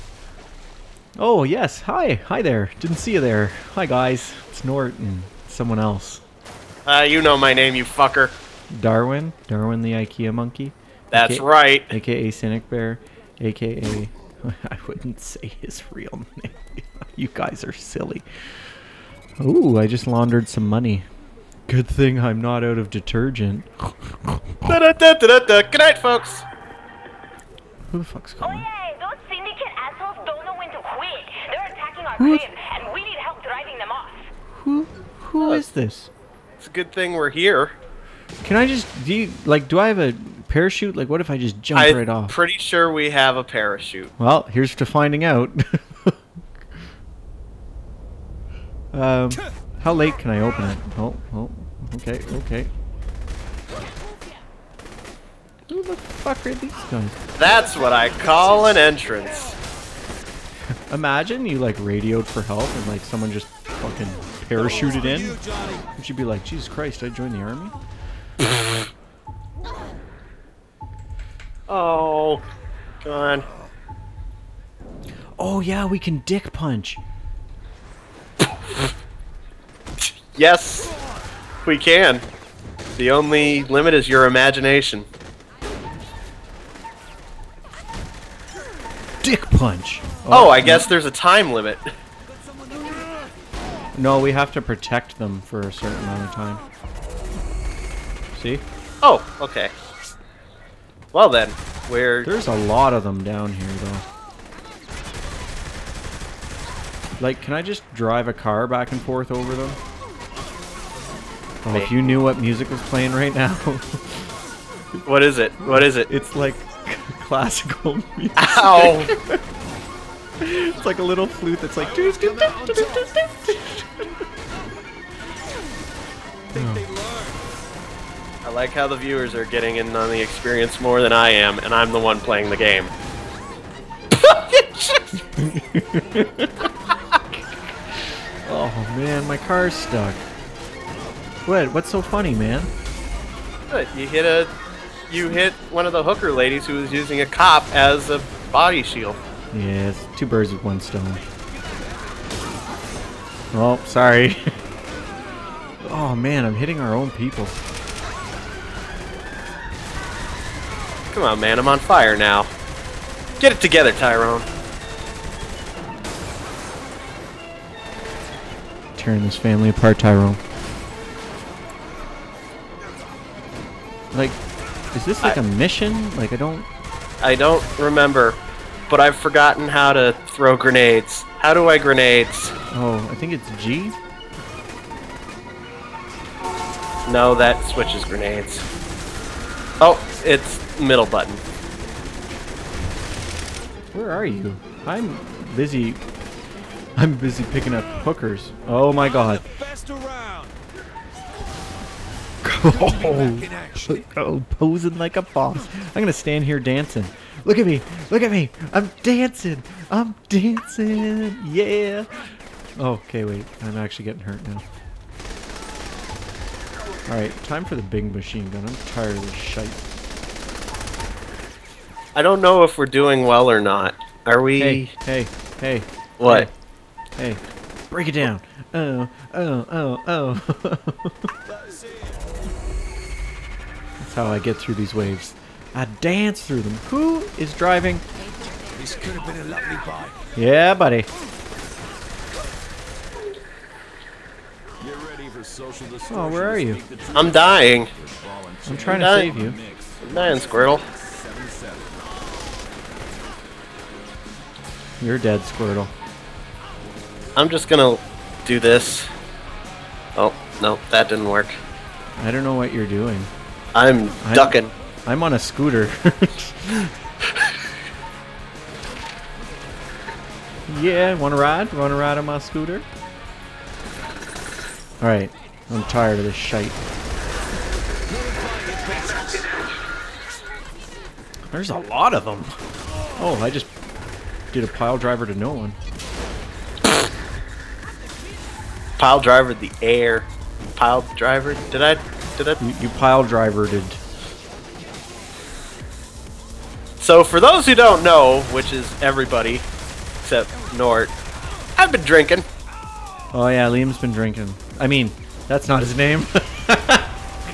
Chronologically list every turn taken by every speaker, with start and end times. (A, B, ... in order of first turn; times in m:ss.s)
0:01.2-0:06.2 A
0:06.9-0:08.3 B
0:08.7-0:18.2 A
0:11.1-0:11.9 B
0:19.4-0:21.1 A
0:21.7-0:24.4 A
0:24.7-0:26.5 B
0:27.9-0:28.7 A
0:29.0-0:34.2 C
0:32.1-0:32.6 A
0:34.5-0:36.1 A
0:36.6-0:37.8 B
0:38.4-0:42.3 A
0:41.7-0:44.1 B
0:44.2-0:46.2 A
0:48.9-0:52.7 A
0:55.7-0:57.2 A
0:57.4-0:59.6 B
1:00.9-1:05.4 A
1:05.0-1:05.8 D
1:06.0-1:07.8 A
1:11.7-1:12.4 B
1:13.0-1:13.5 B
1:15.4-1:17.0 A
1:20.3-1:20.9 B
1:21.6-1:22.2 B
1:23.0-1:25.1 B
1:29.2-1:30.9 A
1:30.3-1:31.9 B
1:34.0-1:36.6 A
1:38.3-1:38.6 A
1:39.0-1:39.7 B
1:41.1-1:42.3 B
1:42.2-1:44.0 A
1:47.2-1:49.8 A
1:51.6-1:54.3 A
1:51.7-1:52.1 B
1:55.1-1:56.1 B
1:55.6-1:59.4 A
1:58.4-1:59.1 B
2:00.4-2:04.1 A
2:01.8-2:03.1 D
2:06.5-2:06.8 A
2:06.6-2:07.4 D
2:08.4-2:12.9 B
2:14.1-2:15.1 B
2:15.3-2:16.7 A
2:18.4-2:20.2 A
2:21.5-2:22.7 A
2:23.7-2:24.5 B
2:25.1-2:29.2 B
2:29.5-2:31.2 A
2:33.5-2:34.5 A
2:35.8-2:37.6 A
2:41.1-2:42.5 B
2:43.4-2:44.5 B
2:49.0-2:50.4 A
2:54.1-2:54.4 A
2:54.9-2:56.7 A
2:57.2-3:02.5 B
3:02.7-3:04.0 A
3:07.1-3:08.6 B
3:09.8-3:11.4 B
3:13.9-3:16.0 A
3:17.0-3:19.4 A
3:19.4-3:20.5 D
3:22.4-3:32.2 A
3:22.7-3:24.0 D
3:32.8-3:34.6 A
3:37.1-3:39.8 A
3:42.2-3:44.9 B
3:44.6-3:46.5 A
3:46.2-3:46.5 B
3:47.2-3:51.3 A
3:54.0-3:58.0 A
3:58.7-4:00.2 D
4:00.4-4:01.1 A
4:04.8-4:11.9 D
4:06.1-4:06.8 A
4:07.2-4:07.9 B
4:08.7-4:09.6 A
4:08.9-4:09.4 B
4:10.0-4:10.8 B
4:15.0-4:15.9 A
4:17.4-4:19.1 B
4:20.2-4:21.6 B
4:22.2-4:23.3 A
4:23.8-4:24.7 B
4:24.2-4:26.9 A
4:30.7-4:32.9 A
4:35.0-4:36.8 A
4:38.1-4:39.5 D
4:41.5-4:42.6 A
4:43.2-4:43.7 A
4:44.5-4:45.8 A
4:49.0-4:52.6 B
4:52.6-4:54.0 A
4:57.0-4:59.7 B
5:00.2-5:01.1 B
5:01.8-5:02.5 B
5:03.3-5:07.2 A